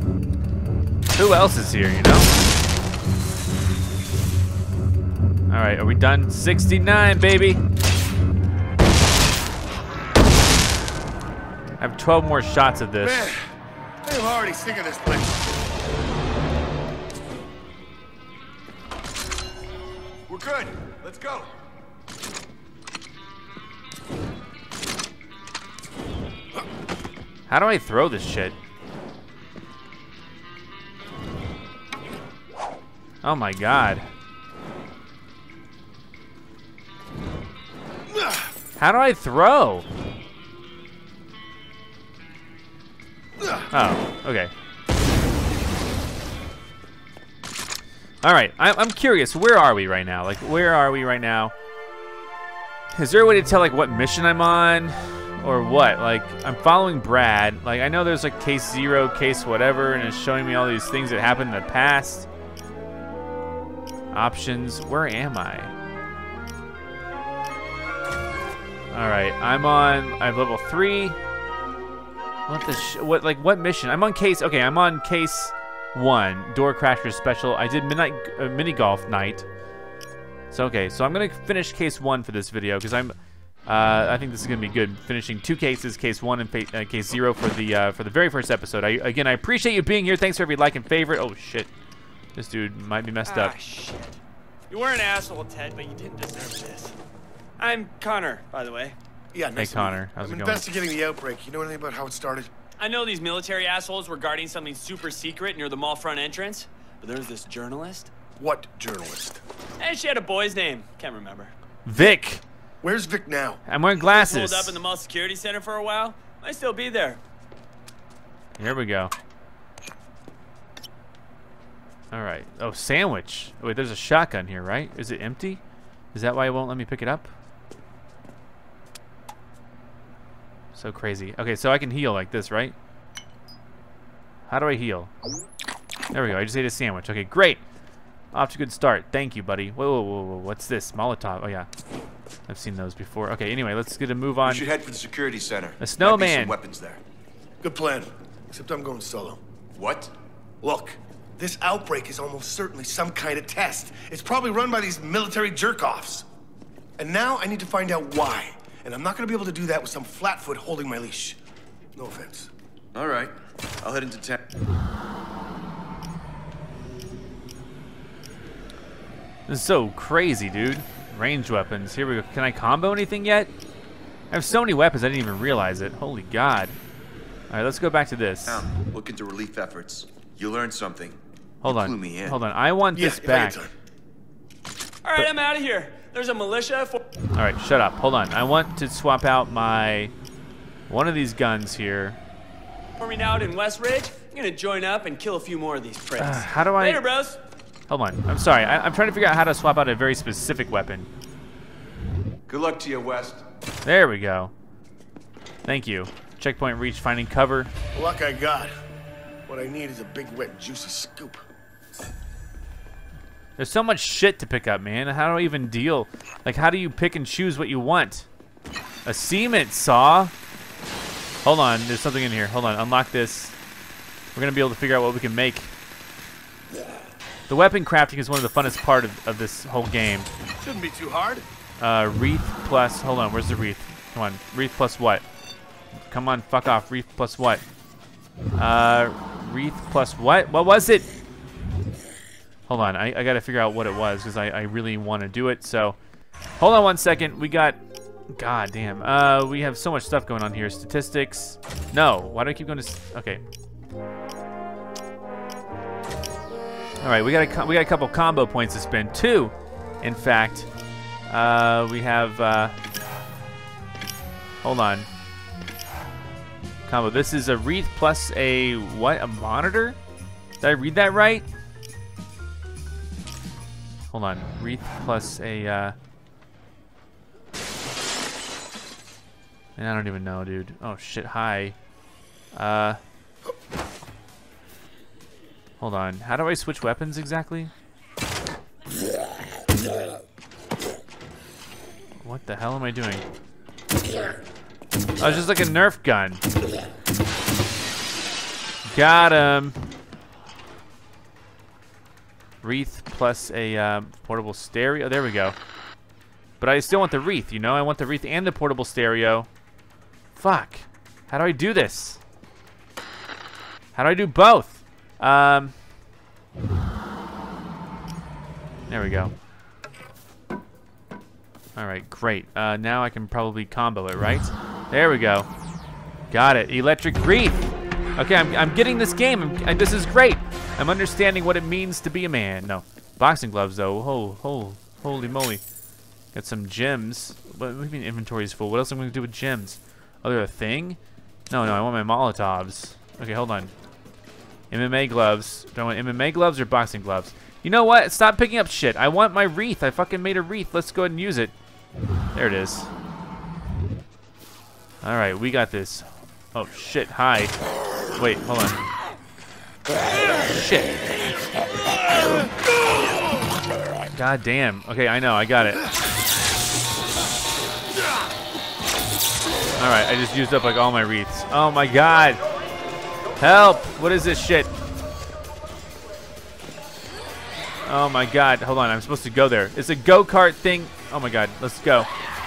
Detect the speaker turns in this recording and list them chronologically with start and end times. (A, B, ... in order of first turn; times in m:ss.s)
0:01.1-0:02.3 A
0:05.5-0:07.6 A
0:11.8-0:13.3 A
0:13.0-0:13.5 B
0:14.0-0:15.4 B
0:20.3-0:21.5 C
0:27.5-0:28.6 A
0:33.2-0:34.1 A
0:38.8-0:39.9 A
0:43.7-0:44.5 A
0:48.2-0:51.5 A
0:52.9-1:02.3 A
1:04.1-1:05.7 A
1:08.9-1:11.2 A
1:12.5-1:19.5 A
1:20.5-1:23.2 A
1:23.7-1:31.7 A
1:32.4-1:33.6 A
1:33.3-1:34.2 D
1:34.7-1:37.0 D
1:37.6-1:39.0 D
1:39.3-1:42.5 B
1:39.6-1:40.7 A
1:42.8-1:48.1 D
1:48.4-1:49.4 B
1:49.8-1:51.5 D
1:51.8-1:52.4 A
1:52.8-1:53.6 B
1:53.7-1:54.8 A
1:54.0-1:57.2 D
1:58.6-1:59.1 A
2:02.1-2:05.6 A
2:06.1-2:07.3 A
2:10.8-2:12.8 A
2:14.5-2:15.1 A
2:16.1-2:17.6 A
2:18.3-2:21.7 A
2:22.5-2:24.7 A
2:24.4-2:27.0 C
2:25.8-2:26.6 A
2:27.6-2:29.4 B
2:29.8-2:30.1 C
2:30.6-2:36.3 B
2:37.0-2:41.4 B
2:42.0-2:42.5 B
2:43.0-2:44.4 C
2:49.5-2:53.5 A
2:54.3-2:56.8 A
2:57.5-2:58.7 A
2:58.5-3:02.4 C
3:01.6-3:03.6 A
3:02.9-3:03.7 B
3:05.0-3:07.0 D
3:07.3-3:10.1 A
3:10.9-3:12.2 A
3:13.0-3:17.4 D
3:16.2-3:17.1 A
3:17.9-3:21.1 A
3:22.5-3:23.4 C
3:23.8-3:24.5 A
3:25.7-3:27.7 A
3:28.0-3:28.7 B
3:29.5-3:31.4 B
3:33.6-3:38.3 A
3:39.0-3:40.3 A
3:41.4-3:43.6 A
3:44.4-3:45.7 A
3:47.5-3:50.3 A
3:50.6-3:51.5 B
3:51.8-3:55.2 A
3:56.1-3:57.6 A
3:58.6-4:01.1 A
4:02.7-4:06.0 A
4:06.6-4:07.8 A
4:08.3-4:13.4 A
4:17.0-4:20.7 A
4:21.3-4:22.7 A
4:24.6-4:25.1 A
4:26.9-4:30.0 A
4:30.6-4:31.5 A
4:34.1-4:36.0 A
4:39.8-4:41.8 A
4:42.5-4:43.0 A
4:45.8-4:47.7 A
4:52.2-4:53.2 A
4:55.2-4:56.4 A
4:58.9-4:59.8 A
5:02.6-5:05.6 A
5:06.6-5:09.5 A
5:10.4-5:12.2 A
5:14.0-5:15.8 A
5:18.9-5:19.3 A
5:21.8-5:25.5 A
5:26.3-5:35.6 A
5:36.3-5:41.0 A
5:41.5-5:43.7 A
5:44.7-5:51.5 A
5:52.4-5:52.9 A
5:55.0-5:57.5 A
5:58.2-5:58.8 A
6:00.4-6:00.9 A
6:04.1-6:05.8 A
6:09.8-6:12.4 A
6:13.4-6:14.7 A
6:17.9-6:22.1 A